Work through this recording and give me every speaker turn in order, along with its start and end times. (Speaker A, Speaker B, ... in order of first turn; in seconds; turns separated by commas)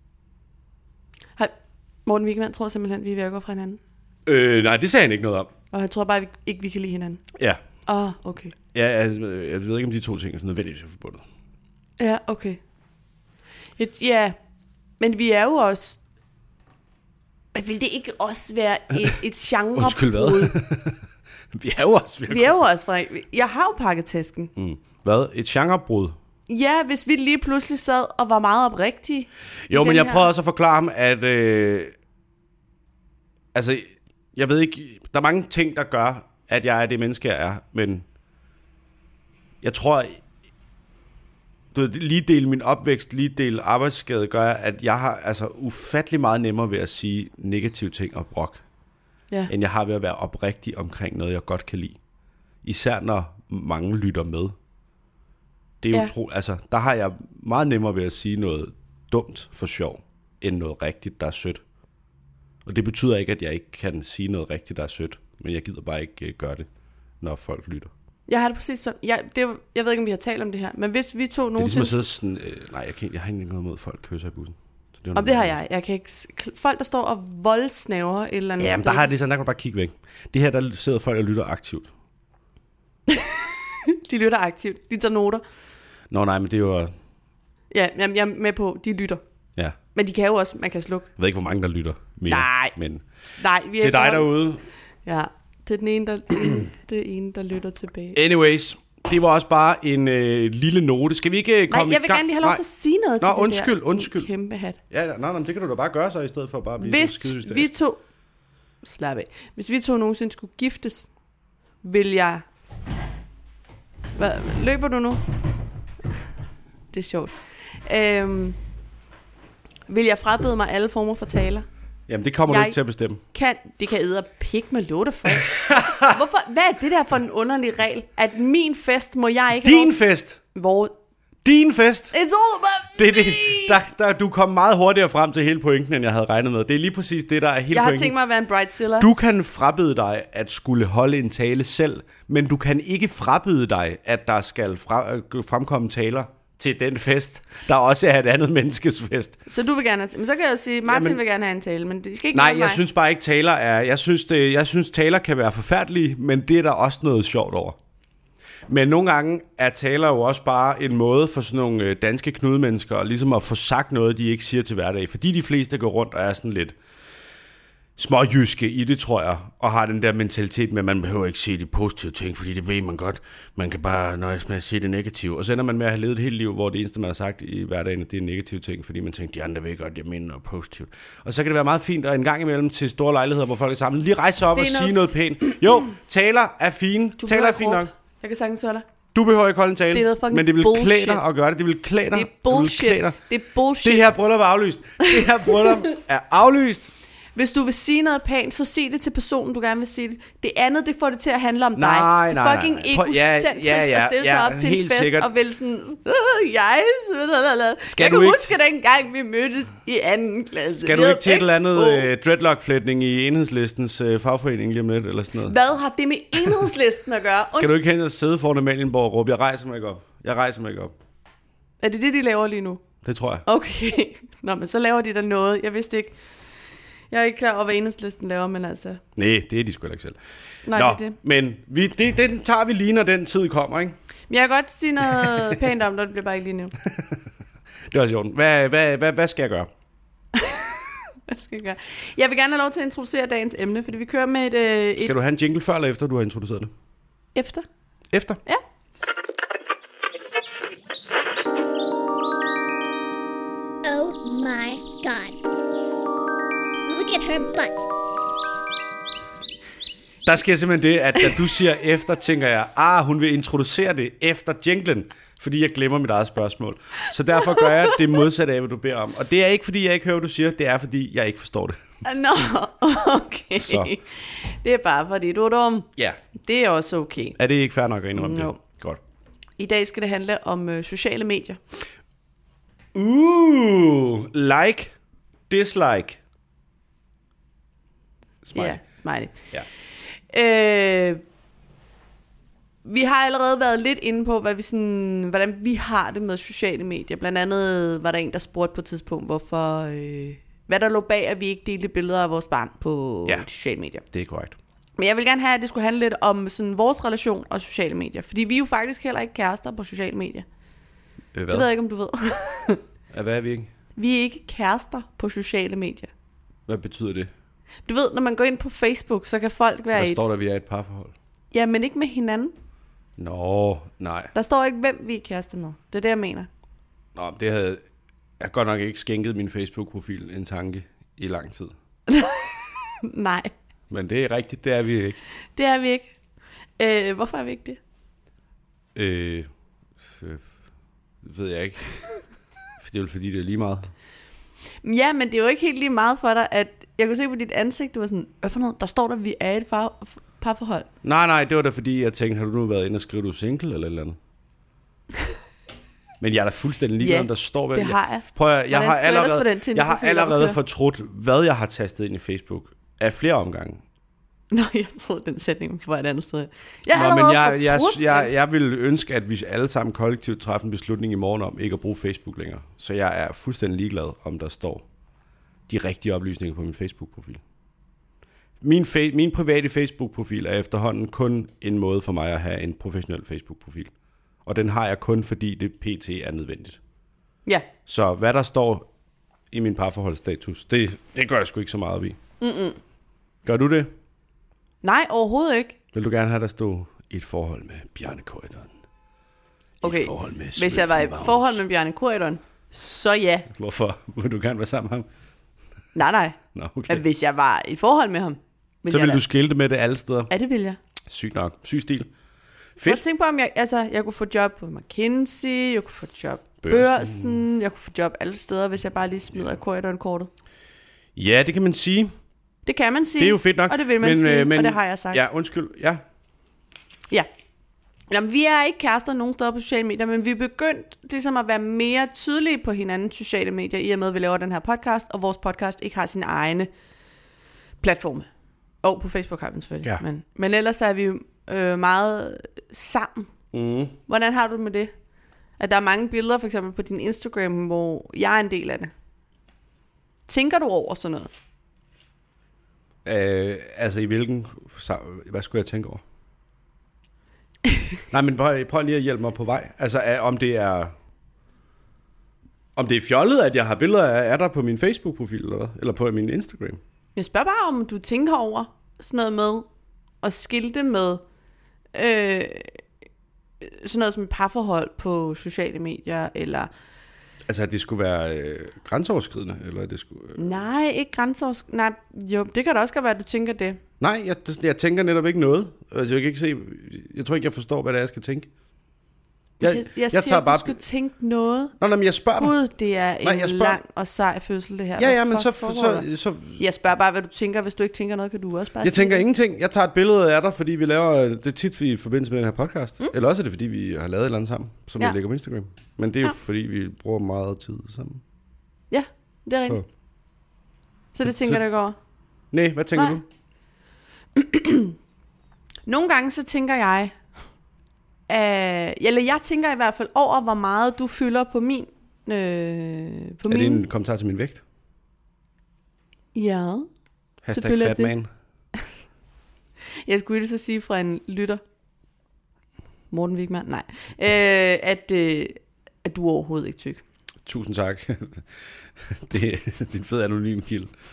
Speaker A: 2.1-3.8, Speaker B: 4.3-5.5, Speaker A: 5.7-7.2, Speaker A: 7.9-8.6, Speaker B: 8.7-11.2, Speaker A: 12.0-12.6, Speaker A: 13.8-14.4, Speaker A: 15.0-16.0, Speaker A: 17.5-20.6, Speaker B: 19.8-22.7, Speaker A: 22.3-24.5, Speaker B: 24.6-26.2, Speaker A: 26.5-30.3, Speaker B: 29.7-31.9, Speaker B: 33.5-38.1, Speaker B: 39.6-40.2, Speaker B: 41.7-48.6, Speaker B: 49.5-52.0, Speaker B: 52.6-54.6, Speaker B: 55.8-61.6, Speaker B: 62.6-66.7, Speaker B: 67.2-67.9, Speaker A: 68.3-72.0, Speaker B: 71.6-75.5, Speaker A: 75.2-79.2, Speaker B: 78.6-81.9, Speaker A: 83.1-85.4, Speaker B: 86.1-86.9, Speaker A: 87.7-89.2, Speaker A: 90.0-91.1, Speaker B: 91.2-93.0, Speaker A: 92.3-92.8, Speaker A: 93.4-94.3, Speaker B: 93.8-94.6, Speaker A: 95.0-98.2, Speaker B: 98.2-102.6, Speaker A: 101.7-104.8, Speaker B: 103.2-104.3, Speaker B: 104.9-107.7, Speaker A: 106.8-108.0, Speaker A: 108.8-111.1, Speaker A: 111.8-112.4, Speaker A: 114.2-115.2, Speaker A: 116.9-118.6, Speaker A: 119.9-121.7, Speaker B: 122.1-123.2, Speaker A: 122.5-122.8, Speaker A: 123.3-130.0, Speaker B: 125.4-126.1, Speaker B: 129.6-130.4, Speaker A: 130.5-130.9, Speaker B: 131.4-132.2, Speaker A: 132.1-133.8, Speaker B: 133.0-138.2, Speaker A: 137.7-139.1, Speaker B: 139.0-149.4, Speaker A: 149.5-152.8, Speaker B: 150.9-151.2, Speaker B: 152.3-157.8, Speaker B: 158.7-166.8, Speaker B: 168.0-187.9, Speaker A: 184.6-185.6, Speaker A: 187.2-188.9, Speaker B: 189.1-193.2, Speaker A: 189.9-191.2, Speaker A: 192.1-194.1, Speaker B: 193.8-196.9, Speaker A: 195.1-195.7, Speaker A: 197.4-212.1, Speaker B: 201.8-205.3, Speaker B: 207.9-208.6, Speaker B: 210.8-215.6, Speaker A: 215.4-217.7, Speaker B: 217.6-220.9, Speaker A: 221.8-222.8, Speaker B: 223.0-223.4, Speaker A: 223.5-226.2, Speaker A: 227.1-229.0, Speaker B: 229.2-230.2, Speaker A: 230.7-231.2, Speaker B: 230.7-234.0, Speaker A: 234.3-236.8, Speaker B: 235.1-235.6, Speaker B: 236.8-237.2, Speaker B: 237.9-239.7, Speaker A: 241.3-245.1, Speaker B: 245.0-246.7, Speaker A: 247.3-247.7, Speaker B: 248.1-248.4, Speaker C: 253.8-255.4, Speaker C: 256.9-257.9, Speaker B: 260.2-271.8, Speaker A: 267.4-268.0, Speaker A: 272.0-275.9, Speaker B: 273.6-273.9, Speaker A: 276.4-277.4, Speaker B: 277.4-279.0, Speaker A: 278.1-278.6, Speaker A: 279.6-281.6, Speaker B: 282.9-284.9, Speaker B: 285.5-286.2, Speaker B: 288.4-288.8, Speaker A: 288.5-289.4, Speaker A: 290.1-291.2, Speaker A: 292.9-304.0, Speaker B: 304.1-304.6, Speaker A: 305.0-310.5, Speaker B: 311.3-311.7, Speaker A: 311.5-312.8, Speaker B: 313.1-313.7, Speaker A: 314.0-316.1, Speaker B: 316.7-317.3, Speaker A: 317.9-320.2, Speaker B: 319.9-321.1, Speaker A: 321.5-322.5, Speaker B: 323.2-324.3, Speaker A: 324.3-326.5, Speaker B: 327.1-327.8, Speaker B: 328.4-331.8, Speaker A: 332.1-333.5, Speaker B: 333.9-335.2, Speaker A: 335.6-336.1, Speaker A: 336.8-337.8, Speaker B: 338.9-339.5, Speaker B: 340.0-340.5, Speaker B: 341.2-342.2, Speaker B: 342.8-343.9, Speaker A: 344.8-350.9, Speaker B: 351.0-354.2, Speaker B: 356.2-363.8, Speaker A: 357.0-360.6, Speaker A: 364.5-368.3, Speaker B: 366.9-374.9, Speaker B: 375.7-377.4, Speaker B: 378.6-383.9, Speaker B: 384.4-386.8, Speaker B: 387.9-388.9, Speaker B: 389.5-392.2, Speaker A: 392.4-392.8, Speaker B: 393.4-393.9, Speaker A: 394.8-395.8, Speaker B: 395.9-398.7, Speaker B: 399.8-401.6, Speaker A: 399.8-403.5, Speaker B: 403.5-405.1, Speaker A: 405.9-409.2, Speaker B: 406.5-407.0, Speaker B: 408.9-410.3, Speaker A: 410.3-410.8, Speaker B: 411.1-412.1, Speaker B: 412.8-413.0, Speaker A: 412.8-420.3, Speaker B: 416.6-417.4, Speaker B: 421.2-422.1, Speaker A: 422.7-425.2, Speaker B: 423.2-426.0, Speaker A: 428.1-436.7, Speaker A: 437.8-438.3, Speaker A: 438.8-443.3, Speaker B: 443.5-444.0, Speaker A: 444.1-444.9, Speaker A: 445.6-448.9, Speaker A: 450.3-451.3, Speaker B: 453.1-456.0, Speaker B: 458.1-460.9, Speaker B: 462.8-466.8, Speaker A: 467.2-469.7, Speaker A: 470.2-471.2, Speaker A: 471.9-472.8, Speaker A: 473.6-476.7, Speaker B: 477.5-480.4, Speaker A: 480.4-483.8, Speaker B: 484.0-488.5, Speaker B: 489.6-490.8, Speaker A: 489.6-491.8, Speaker B: 491.8-492.6, Speaker A: 492.4-496.1, Speaker B: 493.2-493.8, Speaker B: 495.0-496.6, Speaker A: 496.6-499.2, Speaker B: 498.8-508.2, Speaker A: 508.9-509.8, Speaker A: 511.1-512.0, Speaker B: 511.2-511.6, Speaker B: 512.5-513.3, Speaker A: 514.4-515.0, Speaker A: 515.9-517.1, Speaker A: 518.3-523.8, Speaker B: 523.5-524.6, Speaker A: 526.3-526.9, Speaker B: 527.4-528.3, Speaker A: 527.5-528.1, Speaker A: 530.0-531.6, Speaker A: 533.1-537.0, Speaker B: 537.5-538.5, Speaker B: 539.0-540.9